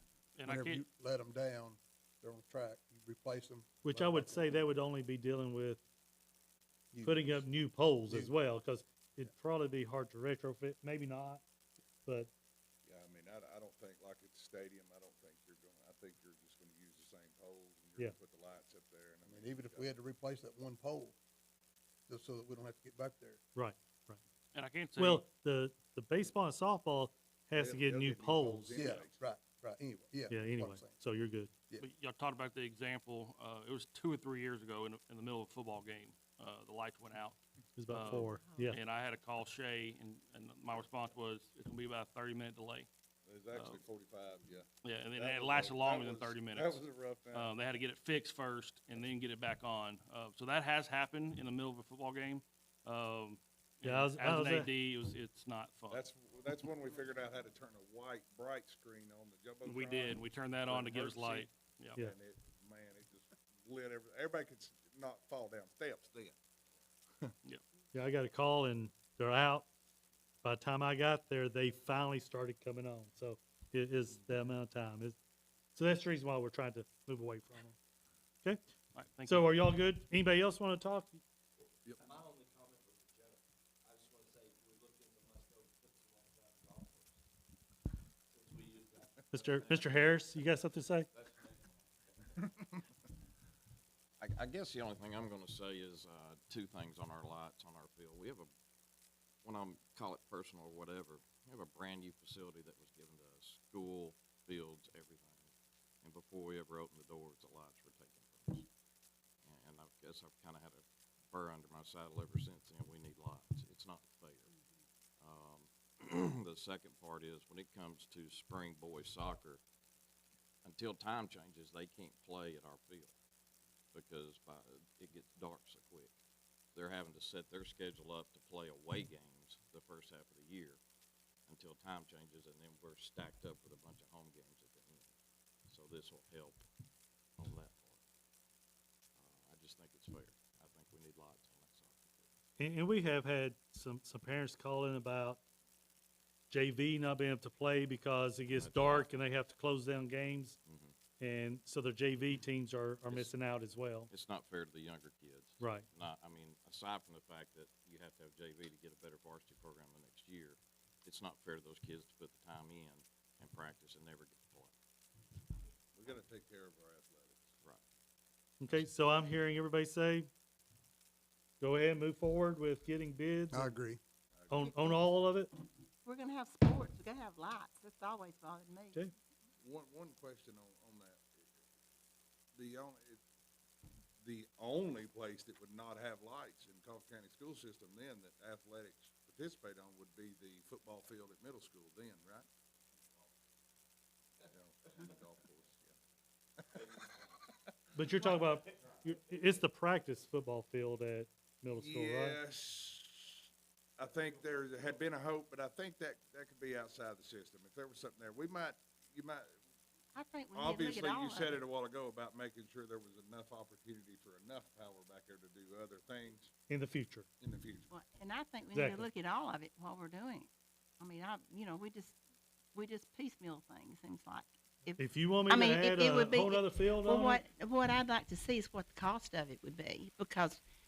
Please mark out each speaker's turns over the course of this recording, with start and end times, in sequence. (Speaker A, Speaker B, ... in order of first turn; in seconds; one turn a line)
Speaker A: 0.4-0.8
Speaker B: 0.5-4.6
Speaker C: 3.8-5.8
Speaker B: 6.9-7.5
Speaker C: 7.0-11.4
Speaker B: 8.1-8.3
Speaker C: 12.1-12.3
Speaker D: 12.8-19.9
Speaker B: 19.3-21.2
Speaker B: 22.1-23.4
Speaker C: 23.6-24.2
Speaker A: 24.5-25.3
Speaker C: 25.0-29.0
Speaker D: 27.6-29.2
Speaker B: 28.8-30.9
Speaker C: 30.3-31.5
Speaker A: 31.8-42.9
Speaker C: 37.8-38.8
Speaker E: 38.2-38.7
Speaker D: 43.3-47.5
Speaker A: 43.5-43.8
Speaker A: 44.8-56.0
Speaker C: 53.8-54.7
Speaker D: 55.9-66.4
Speaker A: 59.6-62.0
Speaker C: 67.9-69.7
Speaker C: 70.4-75.2
Speaker C: 75.8-77.8
Speaker A: 78.9-79.5
Speaker C: 79.3-81.2
Speaker F: 81.8-87.1
Speaker F: 88.3-90.4
Speaker C: 89.3-91.1
Speaker F: 91.1-91.8
Speaker G: 94.2-98.5
Speaker G: 99.4-105.5
Speaker G: 106.0-108.7
Speaker G: 109.4-114.5
Speaker G: 115.2-119.6
Speaker G: 120.7-123.1
Speaker G: 123.9-126.1
Speaker G: 126.7-130.8
Speaker G: 131.5-135.1
Speaker G: 135.7-136.7
Speaker G: 137.4-138.0
Speaker G: 139.2-142.3
Speaker C: 142.6-145.4
Speaker C: 146.5-150.6
Speaker G: 148.5-149.1
Speaker G: 150.7-150.9
Speaker C: 151.2-154.1
Speaker G: 153.1-153.3
Speaker G: 154.1-164.7
Speaker C: 155.6-155.9
Speaker D: 165.9-167.5
Speaker C: 168.6-170.3
Speaker C: 171.6-173.7
Speaker B: 173.5-174.0
Speaker D: 174.3-174.7
Speaker C: 174.5-175.5
Speaker E: 174.6-175.0
Speaker E: 176.0-179.0
Speaker D: 179.6-181.5
Speaker D: 182.6-183.2
Speaker D: 184.2-192.5
Speaker D: 194.5-196.0
Speaker D: 196.6-197.0
Speaker C: 197.9-202.4
Speaker D: 201.8-203.5
Speaker D: 204.0-209.5
Speaker E: 210.2-211.6
Speaker D: 210.5-216.5
Speaker C: 216.7-217.3
Speaker D: 217.4-217.9
Speaker E: 217.9-220.5
Speaker C: 218.7-219.1
Speaker E: 221.0-222.2
Speaker E: 222.7-230.6
Speaker C: 225.0-227.4